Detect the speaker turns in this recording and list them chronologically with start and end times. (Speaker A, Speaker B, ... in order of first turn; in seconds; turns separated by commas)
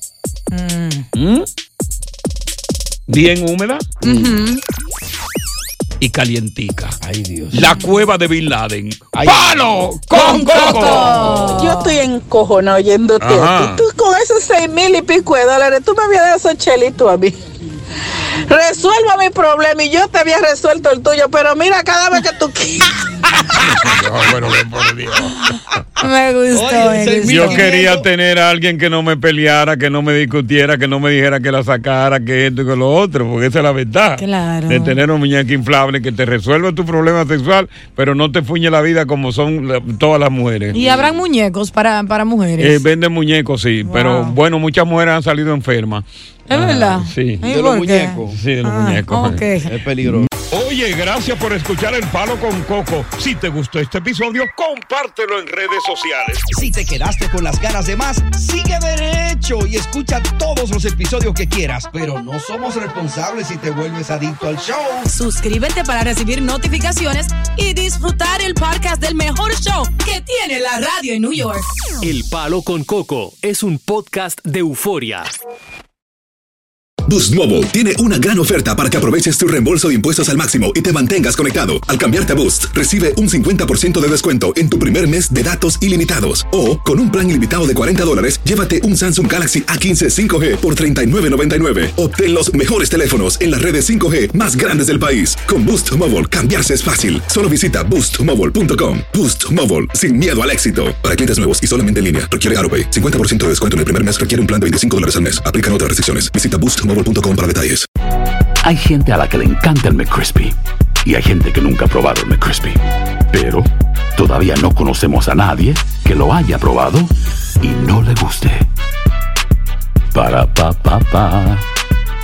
Speaker A: 0.5-1.1, Speaker B: 1.1-1.4, Speaker B: 3.1-3.9, Speaker C: 4.0-4.4, Speaker A: 4.0-4.6, Speaker B: 6.0-7.0, Speaker C: 7.0-7.6, Speaker B: 7.5-11.6, Speaker C: 9.1-11.1, Speaker A: 10.1-12.0, Speaker D: 11.1-17.4, Speaker B: 13.2-13.8, Speaker D: 18.5-23.0, Speaker B: 23.5-25.4, Speaker A: 26.0-27.6, Speaker C: 26.5-28.1, Speaker B: 27.2-40.8, Speaker A: 34.2-35.0, Speaker A: 40.7-42.8, Speaker B: 42.6-47.5, Speaker A: 43.9-44.4, Speaker A: 46.5-49.7, Speaker C: 47.4-48.4, Speaker B: 48.3-49.4, Speaker C: 49.7-50.3, Speaker B: 50.0-56.4, Speaker C: 56.5-65.0, Speaker A: 65.1-71.7, Speaker E: 72.0-75.3, Speaker F: 77.0-107.8, Speaker G: 108.6-112.8, Speaker G: 113.3-118.7, Speaker G: 120.1-121.7